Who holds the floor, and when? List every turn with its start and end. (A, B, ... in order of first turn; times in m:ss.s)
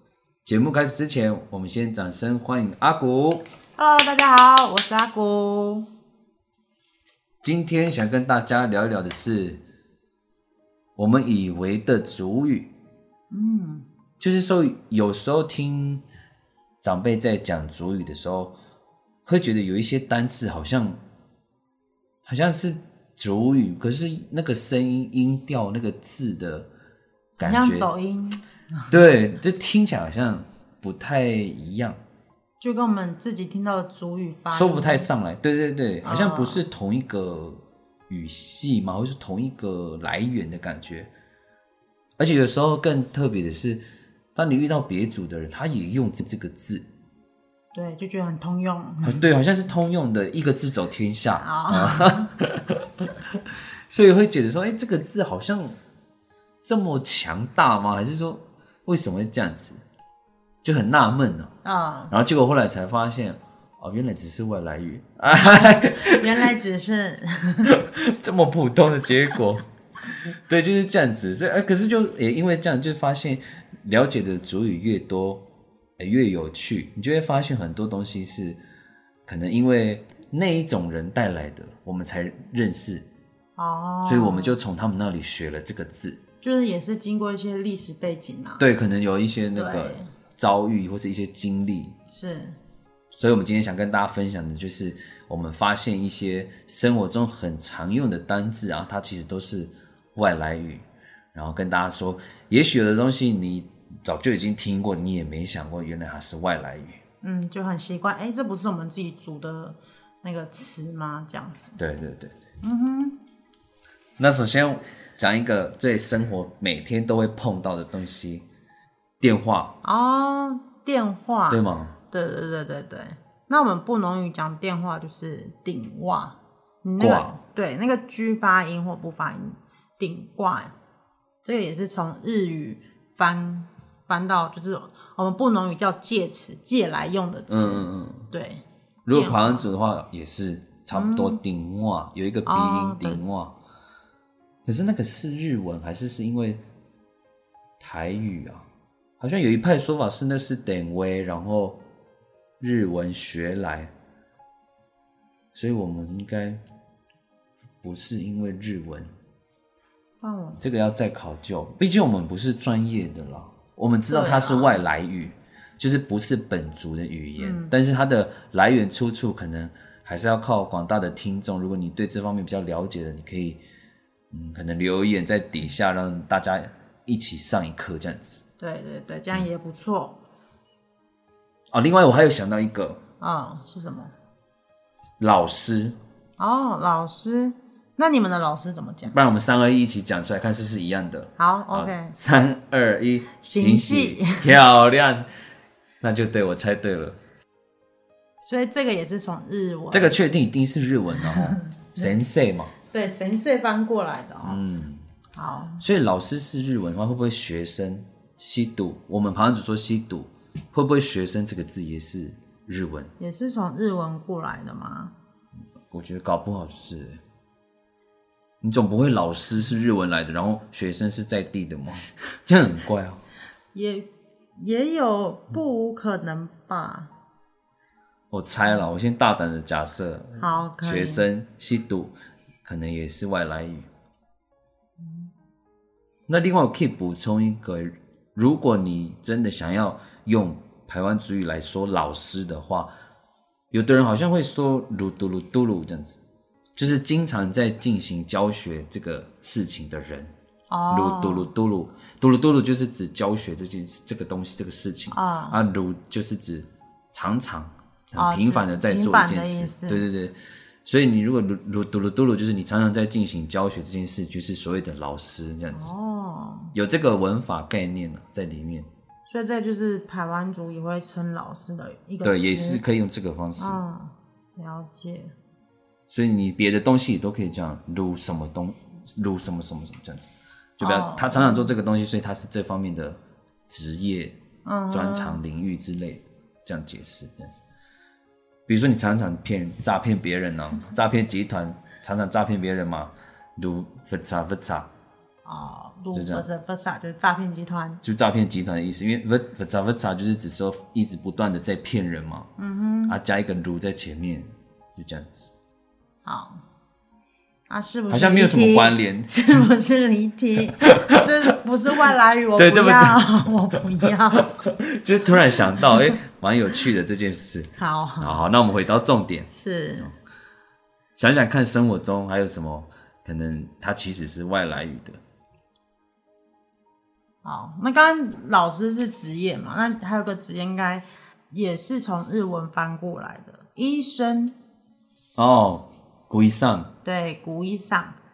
0:00.4-0:03.4 A
0:03.8-0:05.9 B
0:07.4-0:09.6 A
0:11.0-0:12.7 A
0:13.3-0:13.8 B
0:14.2-0:16.0 A
0:16.8-0:18.5 A
0:19.2-0:21.0 A
0:22.2-0:26.7 A
0:27.4-0:27.9 A
0:27.4-0:28.9 B
0:28.9-0:32.0 A
0:32.6-0:35.1 B
0:34.5-0:41.1 A
0:36.0-0:36.6 B
0:42.2-0:43.8 A
0:44.3-0:46.8 A
0:47.7-0:49.2 B
0:49.0-0:55.8 A
0:51.4-0:52.3 B
0:56.6-0:59.8 A
1:00.6-1:01.5 A
1:01.6-1:02.1 B
1:02.1-1:06.2 A
1:05.3-1:07.7 B
1:07.7-1:09.6 A
1:10.5-1:15.4 A
1:16.0-1:18.6 A
1:19.3-1:23.0 A
1:23.6-1:24.6 B
1:24.0-1:26.2 A
1:26.4-1:28.6 B
1:28.6-1:31.9 A
1:29.5-1:30.1 B
1:32.1-1:32.6 B
1:33.1-1:47.0 A
1:47.2-1:51.8 B
1:51.8-1:52.3 A
1:52.6-1:53.2 B
1:54.2-1:58.4 A
1:59.2-1:59.7 A
1:59.8-2:10.7 B
2:01.5-2:01.9 A
2:07.0-2:07.3 A
2:11.4-2:19.6 B
2:17.5-2:18.3 A
2:19.0-2:23.5 A
2:20.9-2:21.4 B
2:22.4-2:23.2 B
2:24.6-2:26.6 A
2:27.8-2:28.6 A
2:29.2-2:31.8 A
2:32.6-2:33.9 A
2:35.5-2:36.6 A
2:37.8-2:39.1 A
2:40.2-2:40.6 B
2:40.6-2:53.6 A
2:44.1-2:44.8 B
2:47.4-2:47.7 B
2:54.3-2:58.4 A
2:58.6-3:00.2 B
3:01.7-3:03.0 A
3:03.2-3:04.1 B
3:05.2-3:06.0 A
3:06.4-3:09.1 B
3:09.1-3:15.3 A
3:11.4-3:12.1 B
3:13.4-3:14.5 B
3:16.0-3:17.2 A
3:18.4-3:20.1 B
3:19.9-3:22.7 A
3:21.2-3:22.1 B
3:22.9-3:24.6 B
3:24.4-3:25.1 A
3:25.4-3:25.8 B
3:25.8-3:33.1 A
3:33.2-3:35.1 B
3:35.9-3:37.2 A
3:38.6-3:43.2 A
3:43.7-3:47.1 B
3:48.3-3:52.1 A
3:50.4-3:51.2 B
3:52.6-3:53.9 A
3:55.0-3:55.3 B
3:56.3-4:02.9 A
4:03.7-4:06.2 A
4:06.8-4:10.3 A
4:10.7-4:11.5 B
4:10.9-4:25.9 A
4:15.1-4:15.6 B
4:18.2-4:20.0 B
4:25.7-4:26.7 B
4:26.7-4:28.9 A
4:29.3-4:32.8 B
4:32.2-4:33.8 A
4:33.6-4:35.3 B
4:36.1-4:44.4 A
4:40.8-4:41.7 B
4:44.6-4:45.4 B
4:44.9-4:47.5 A
4:48.7-4:54.9 A
4:55.4-4:58.0 B
4:56.1-4:56.4 A
4:58.0-5:02.5 A
5:02.6-5:03.2 B
5:03.1-5:05.5 A
5:06.2-5:06.6 B
5:07.7-5:14.5 B
5:08.1-5:09.7 A
5:12.6-5:13.5 A
5:14.6-5:19.5 A
5:17.8-5:18.4 B
5:19.5-5:20.1 B
5:21.2-5:25.2 A
5:27.4-5:34.6 B
5:35.4-5:36.9 A
5:37.0-5:38.2 B